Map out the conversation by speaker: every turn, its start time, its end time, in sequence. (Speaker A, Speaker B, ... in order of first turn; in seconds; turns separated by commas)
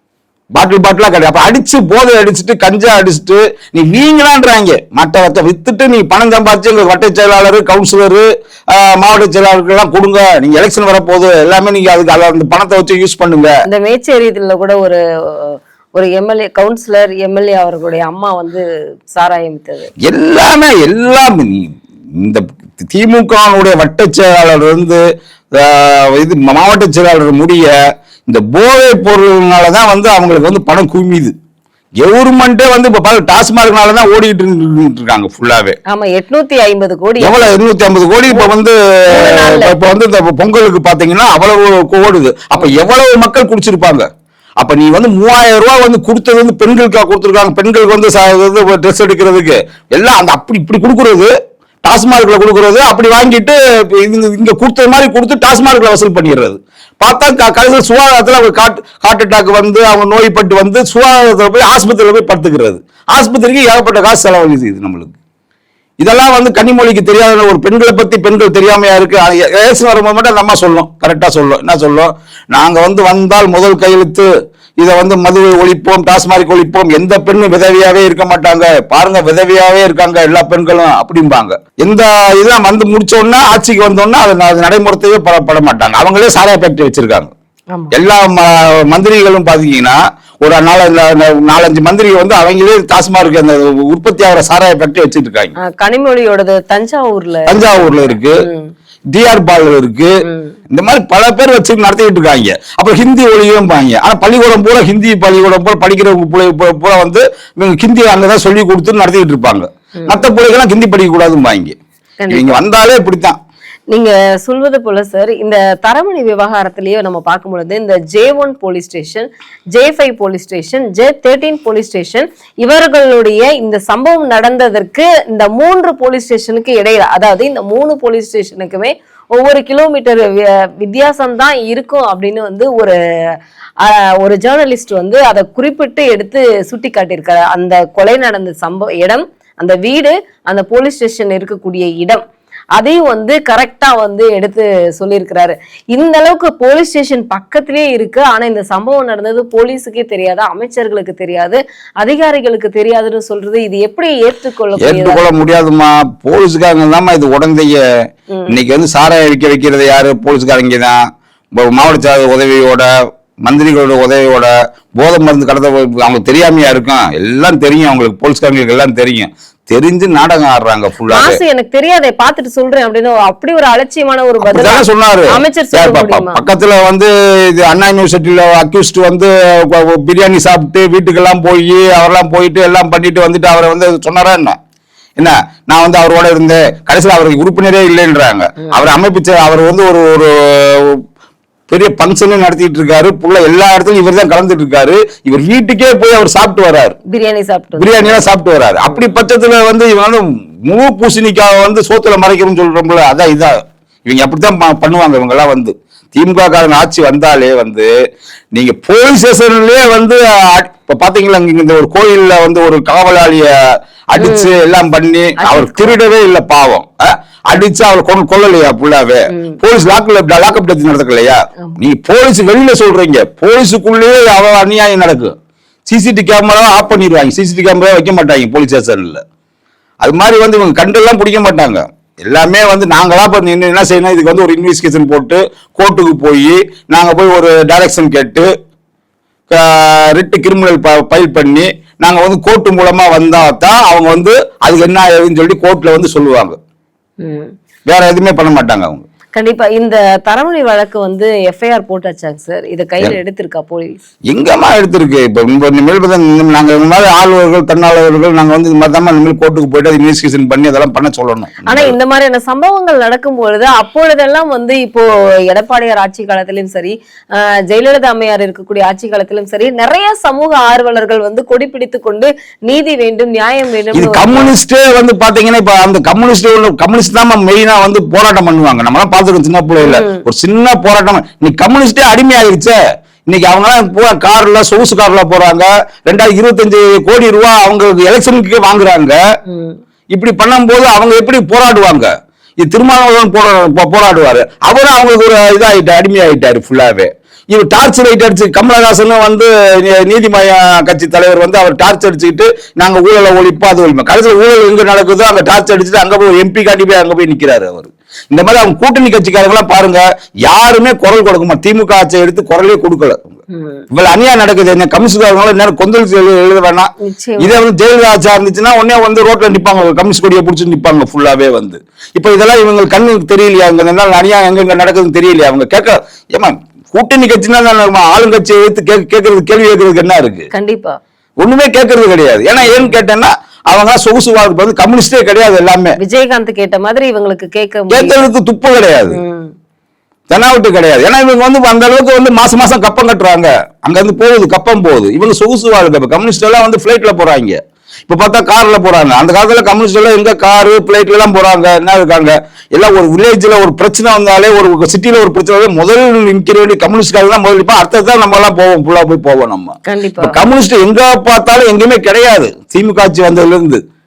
Speaker A: 0.6-13.6, Speaker B: 13.7-19.9, Speaker A: 20.0-25.0, Speaker A: 25.5-27.7, Speaker A: 28.3-31.3, Speaker A: 32.0-35.8, Speaker B: 35.9-37.4, Speaker A: 37.2-44.1, Speaker B: 39.1-39.7, Speaker A: 44.6-51.3, Speaker A: 51.8-65.1, Speaker A: 66.0-74.3, Speaker A: 74.8-87.3, Speaker A: 87.9-95.5, Speaker B: 95.6-98.7, Speaker A: 97.5-98.4, Speaker A: 99.1-100.1, Speaker B: 100.2-100.5, Speaker A: 100.7-111.8, Speaker B: 110.0-110.3, Speaker B: 112.2-112.6, Speaker A: 112.3-113.4, Speaker B: 113.9-133.0, Speaker B: 133.8-142.2, Speaker B: 142.8-155.2, Speaker A: 154.8-157.8, Speaker B: 158.3-158.6, Speaker A: 158.5-161.0, Speaker A: 161.6-162.9, Speaker A: 163.4-171.4, Speaker B: 171.1-176.4, Speaker A: 174.4-184.6, Speaker A: 185.2-191.0, Speaker A: 191.7-197.0, Speaker B: 197.1-198.2, Speaker A: 197.8-207.9, Speaker B: 198.9-199.2, Speaker A: 208.5-213.5, Speaker A: 214.1-225.3, Speaker B: 214.2-214.6, Speaker B: 215.4-216.0, Speaker B: 219.3-219.6, Speaker A: 225.9-229.2, Speaker A: 230.0-238.5, Speaker A: 239.5-246.6, Speaker B: 247.2-247.5, Speaker A: 247.8-249.0, Speaker B: 249.3-254.0, Speaker A: 254.3-261.9, Speaker B: 261.6-274.5, Speaker A: 273.9-289.2, Speaker B: 279.8-280.2, Speaker B: 289.5-289.8, Speaker A: 290.1-292.1, Speaker A: 292.6-313.3, Speaker B: 313.5-313.8, Speaker A: 313.9-330.5, Speaker B: 317.0-317.6, Speaker B: 330.5-331.0, Speaker A: 331.4-336.0, Speaker B: 332.6-332.9, Speaker B: 336.0-338.3, Speaker A: 337.9-339.2, Speaker B: 339.1-339.5, Speaker A: 340.3-363.8, Speaker B: 359.9-360.4